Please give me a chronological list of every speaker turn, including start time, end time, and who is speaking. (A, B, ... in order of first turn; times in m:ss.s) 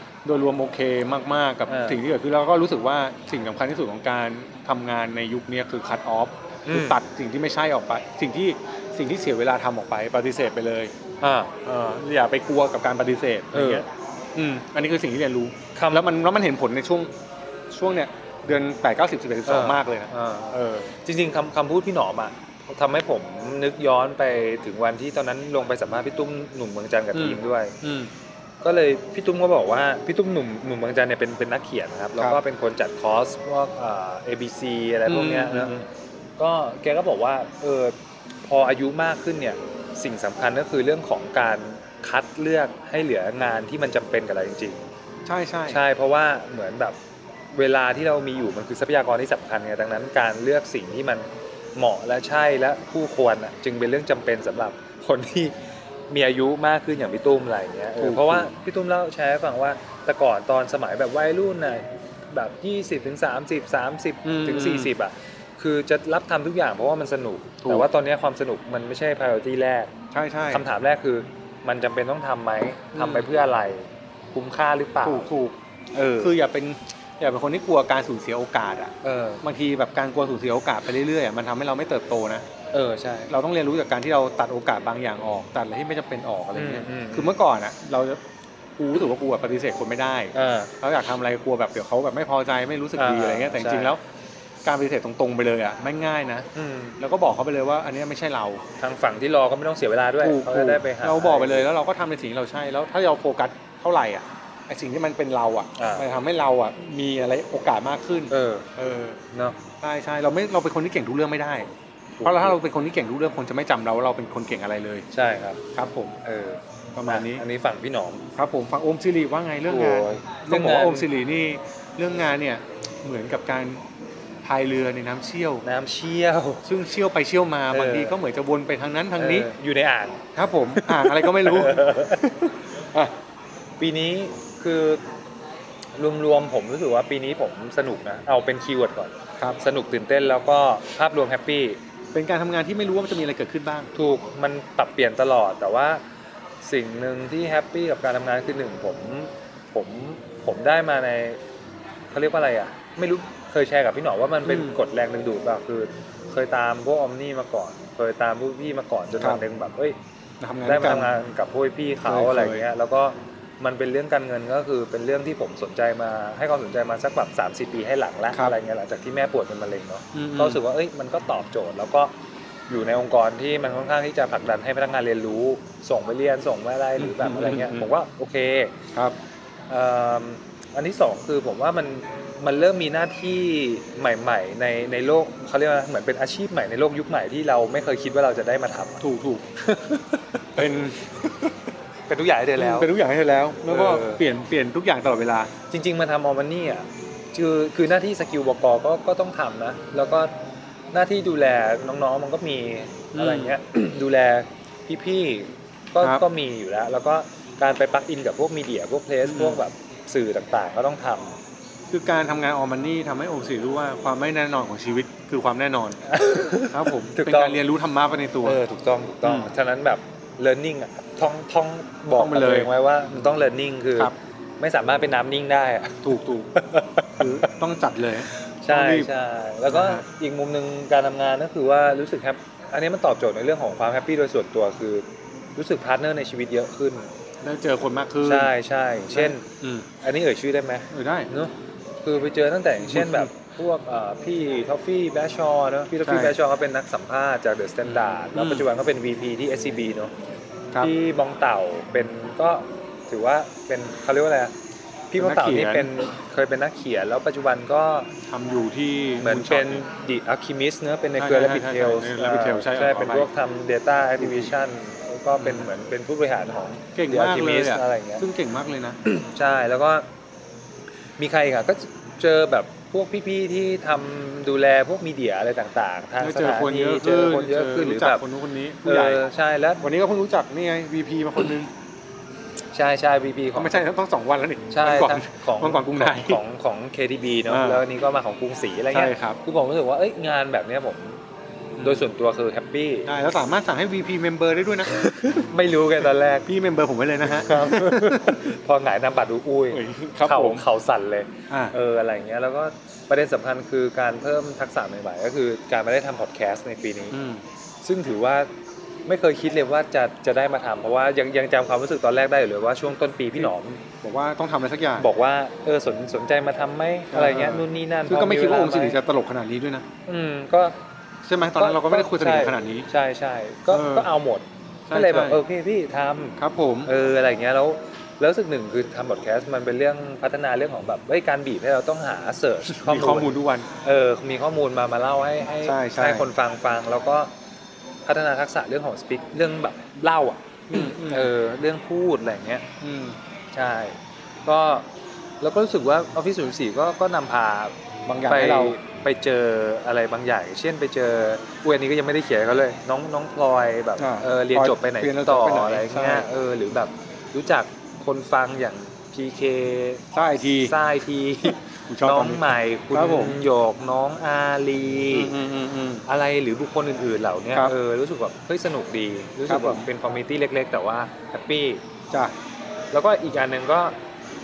0:00.2-0:10.9 A
0:01.7-0:02.0 B
0:06.7-0:07.0 B
0:11.2-0:11.5 B
0:11.6-0:17.1 A
0:13.5-0:13.8 B
0:15.8-0:16.0 B
0:17.7-0:20.9 A
0:19.5-0:27.8 B
0:27.1-0:28.1 A
0:28.6-0:35.8 B
0:35.1-0:35.8 A
0:36.4-0:44.9 B
0:45.3-0:45.8 A
0:45.7-0:47.0 B
0:47.5-0:55.6 B
0:56.1-1:09.9 B
0:58.0-0:58.5 A
1:04.2-1:04.9 A
1:07.6-1:07.9 A
1:10.1-1:10.7 A
1:10.5-1:15.3 B
1:13.0-1:13.3 A
1:15.0-1:15.6 A
1:15.9-1:16.3 B
1:16.2-1:22.5 A
1:19.0-1:19.4 B
1:22.7-1:23.3 B
1:23.3-1:28.2 A
1:26.5-1:27.4 B
1:28.8-1:34.0 A
1:30.3-1:30.7 B
1:33.0-1:33.9 B
1:34.6-1:36.5 A
1:36.6-1:37.0 B
1:37.0-1:38.6 A
1:38.8-1:41.7 B
1:40.2-1:49.2 A
1:45.8-1:46.1 B
1:48.3-1:48.7 B
1:49.3-1:49.6 B
1:49.8-1:51.7 A
1:52.2-1:52.6 B
1:52.2-1:55.1 A
1:55.1-1:55.6 B
1:55.8-1:56.2 A
1:56.2-1:58.3 B
1:57.0-1:57.4 A
1:58.4-2:03.8 A
1:59.7-2:01.1 B
2:04.4-2:05.6 A
2:05.6-2:06.7 B
2:06.6-2:09.5 A
2:07.7-2:08.2 B
2:09.2-2:10.2 B
2:10.4-2:13.2 A
2:10.8-2:12.3 B
2:13.8-2:15.0 B
2:16.0-2:21.8 B
2:22.1-2:23.9 A
2:23.9-2:26.0 B
2:26.6-2:31.4 B
2:32.1-2:40.0 B
2:34.4-2:34.8 A
2:40.4-2:41.1 A
2:40.6-2:52.1 B
2:42.1-2:42.6 A
2:50.1-2:50.6 A
2:52.7-2:58.8 B
2:57.0-2:57.9 A
2:59.7-3:09.0 B
3:09.0-3:09.5 A
3:09.6-3:10.4 B
3:10.6-3:11.5 A
3:12.1-3:12.9 B
3:12.6-3:15.5 A
3:13.7-3:14.2 B
3:15.7-3:20.3 B
3:20.9-3:31.4 B
3:23.1-3:23.6 A
3:29.2-3:29.6 A
3:31.9-3:36.0 A
3:36.1-3:37.6 B
3:36.7-3:38.6 A
3:38.4-3:47.5 B
3:39.2-3:39.5 A
3:42.2-3:42.7 A
3:46.0-3:46.5 A
3:47.2-3:49.1 A
3:48.5-3:57.1 B
3:49.7-3:50.0 A
3:57.4-3:58.5 A
3:58.2-3:59.5 B
3:59.1-3:59.9 A
4:00.0-4:01.5 B
4:00.9-4:01.3 A
4:02.0-4:10.1 B
4:02.8-4:03.3 A
4:06.0-4:06.4 A
4:07.8-4:08.7 A
4:10.8-4:14.5 B
4:15.1-4:18.1 B
4:15.2-4:15.9 A
4:18.2-4:19.8 A
4:19.2-4:28.2 B
4:21.2-4:23.3 A
4:24.2-4:24.5 A
4:25.4-4:25.7 A
4:27.0-4:29.0 A
4:29.0-4:30.1 B
4:31.2-4:38.2 B
4:36.2-4:39.2 A
4:38.8-4:39.8 B
4:39.8-4:41.7 A
4:42.7-4:43.8 B
4:43.6-4:46.4 A
4:44.7-4:51.2 B
4:47.5-4:47.8 A
4:48.9-4:49.4 A
4:51.8-4:52.1 A
4:51.8-4:53.1 B
4:53.1-4:55.5 A
4:55.0-4:56.5 B
4:56.5-4:58.5 A
4:57.2-5:07.2 B
4:59.7-5:00.6 A
5:01.5-5:01.8 A
5:07.1-5:07.4 A
5:07.8-5:08.5 B
5:09.1-5:13.8 B
5:14.0-5:15.1 A
5:15.0-5:19.0 B
5:17.1-5:19.9 A
5:20.1-5:20.8 B
5:21.2-5:22.9 A
5:21.6-5:37.3 B
5:23.7-5:24.1 A
5:24.9-5:25.4 A
5:26.4-5:26.9 A
5:32.7-5:33.7 A
5:35.6-5:36.3 A
5:38.1-5:42.7 B
5:40.7-5:41.3 A
5:42.8-5:43.2 A
5:43.5-5:44.9 B
5:45.4-5:47.7 B
5:48.1-5:48.8 A
5:48.2-6:00.0 B
5:54.0-5:56.3 A
6:00.1-6:00.8 A
6:00.6-6:05.3 B
6:01.4-6:03.4 A
6:05.1-6:06.0 A
6:06.1-6:11.8 B
6:09.5-6:09.9 A
6:12.9-6:14.0 B